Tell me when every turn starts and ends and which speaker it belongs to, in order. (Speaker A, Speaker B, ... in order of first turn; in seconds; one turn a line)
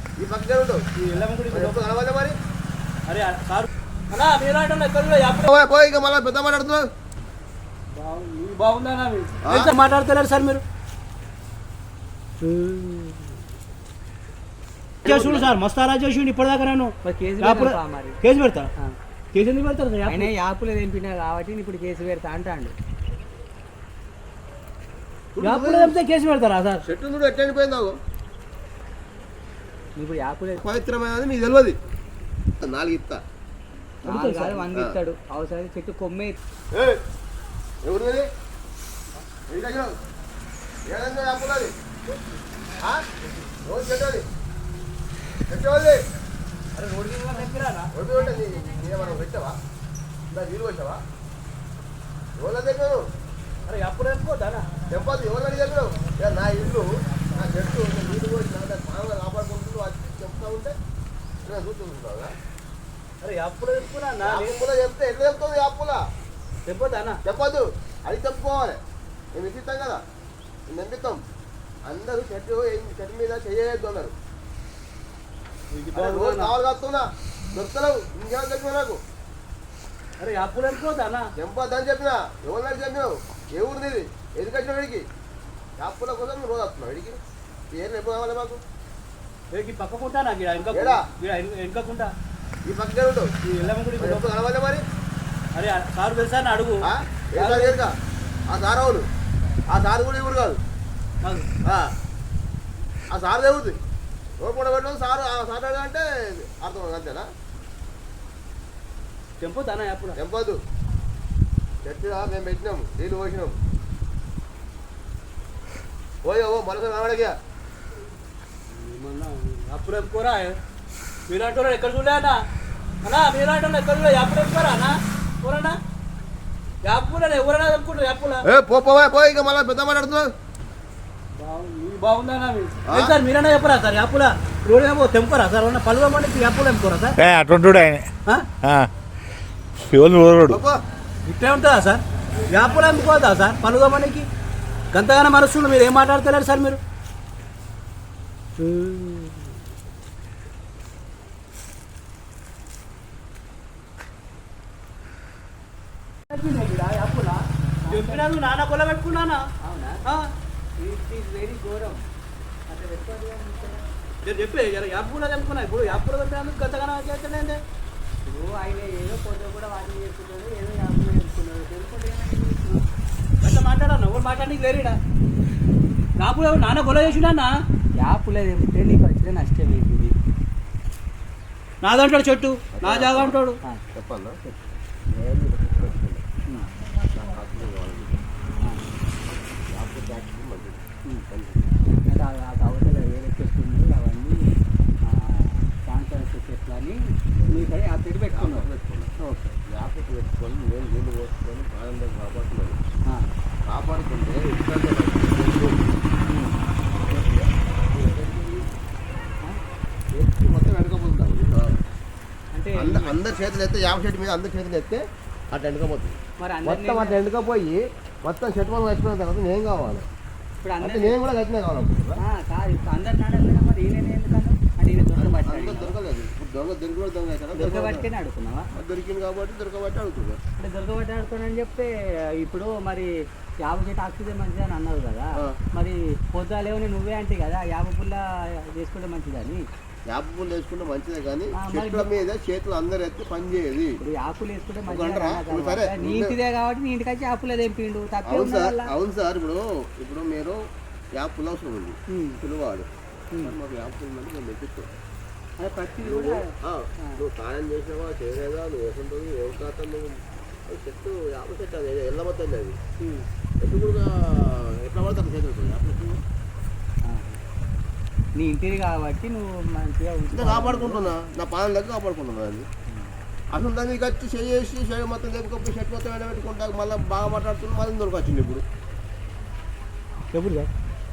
Speaker A: 0.2-0.8
Speaker B: 0.9-1.8
Speaker A: 1.5-2.4
Speaker B: 3.1-5.5
Speaker A: 5.4-6.9
Speaker B: 7.9-10.6
Speaker A: 9.4-9.7
Speaker C: 12.7-13.0
Speaker B: 15.0-18.7
Speaker A: 15.1-15.3
Speaker C: 17.0-18.2
Speaker B: 19.3-20.3
Speaker C: 20.1-22.7
Speaker A: 25.3-25.9
Speaker B: 25.4-26.8
Speaker A: 26.8-28.0
Speaker C: 29.9-30.6
Speaker A: 30.6-31.8
Speaker A: 32.6-33.2
Speaker B: 34.0-34.7
Speaker C: 34.0-36.4
Speaker A: 36.7-37.0
Speaker A: 37.8-38.3
Speaker A: 39.5-39.9
Speaker A: 40.9-41.7
Speaker A: 42.8-43.0
Speaker A: 43.6-44.3
Speaker A: 45.5-46.0
Speaker B: 46.8-47.9
Speaker A: 47.9-49.6
Speaker A: 50.3-51.0
Speaker A: 52.4-53.0
Speaker B: 53.7-54.6
Speaker A: 54.9-60.8
Speaker A: 61.4-62.3
Speaker B: 63.2-64.6
Speaker A: 64.2-66.0
Speaker B: 66.7-67.2
Speaker A: 67.2-68.8
Speaker A: 69.3-70.0
Speaker A: 70.7-71.2
Speaker A: 71.8-74.1
Speaker B: 75.7-76.5
Speaker A: 75.9-79.0
Speaker B: 80.2-81.3
Speaker A: 81.4-85.0
Speaker A: 85.8-87.2
Speaker A: 87.7-88.6
Speaker B: 89.5-92.1
Speaker A: 90.7-91.0
Speaker A: 92.7-93.3
Speaker B: 93.4-94.3
Speaker A: 94.0-94.8
Speaker B: 95.5-97.8
Speaker A: 96.8-97.9
Speaker A: 98.5-99.0
Speaker A: 99.7-100.6
Speaker B: 101.2-101.6
Speaker A: 103.1-103.8
Speaker A: 104.4-107.3
Speaker B: 109.4-110.2
Speaker A: 110.2-110.6
Speaker A: 111.8-113.5
Speaker A: 116.2-117.3
Speaker B: 118.7-120.6
Speaker B: 121.3-122.4
Speaker B: 123.0-125.8
Speaker B: 126.8-128.4
Speaker A: 128.4-130.3
Speaker B: 131.4-137.2
Speaker A: 132.8-133.2
Speaker D: 137.2-138.9
Speaker D: 139.8-140.6
Speaker A: 140.5-140.8
Speaker B: 141.2-144.3
Speaker B: 144.9-146.8
Speaker B: 148.6-149.2
Speaker C: 156.3-158.2
Speaker B: 156.4-157.1
Speaker B: 157.9-159.4
Speaker C: 159.6-160.0
Speaker B: 160.0-160.3
Speaker C: 160.8-162.0
Speaker C: 162.7-163.8
Speaker B: 164.2-167.6
Speaker C: 168.2-172.8
Speaker B: 173.4-175.0
Speaker B: 176.2-177.5
Speaker C: 178.0-180.1
Speaker B: 181.8-183.6
Speaker A: 182.7-183.4
Speaker A: 183.9-184.6
Speaker A: 185.1-186.2
Speaker A: 187.1-188.2
Speaker A: 189.7-191.7
Speaker C: 192.1-199.6
Speaker A: 197.3-197.7
Speaker A: 198.3-199.1
Speaker A: 199.7-202.8
Speaker A: 203.7-205.9
Speaker C: 206.2-206.6
Speaker A: 207.1-208.6
Speaker A: 210.1-211.8
Speaker C: 212.5-213.1
Speaker A: 212.7-220.1
Speaker C: 216.4-217.2
Speaker C: 220.6-221.2
Speaker A: 220.8-222.2
Speaker C: 222.2-225.9
Speaker A: 225.2-228.1
Speaker C: 227.5-228.7
Speaker A: 228.7-230.4
Speaker C: 230.6-239.6
Speaker A: 240.1-244.0
Speaker C: 241.5-242.1
Speaker C: 244.0-248.9
Speaker A: 244.9-246.4
Speaker A: 248.2-250.6
Speaker A: 251.1-254.9
Speaker C: 255.6-256.4
Speaker A: 256.0-262.8
Speaker A: 263.6-266.2
Speaker C: 267.0-267.4
Speaker C: 268.4-271.1
Speaker A: 270.3-272.7
Speaker A: 273.5-278.6
Speaker B: 280.3-280.7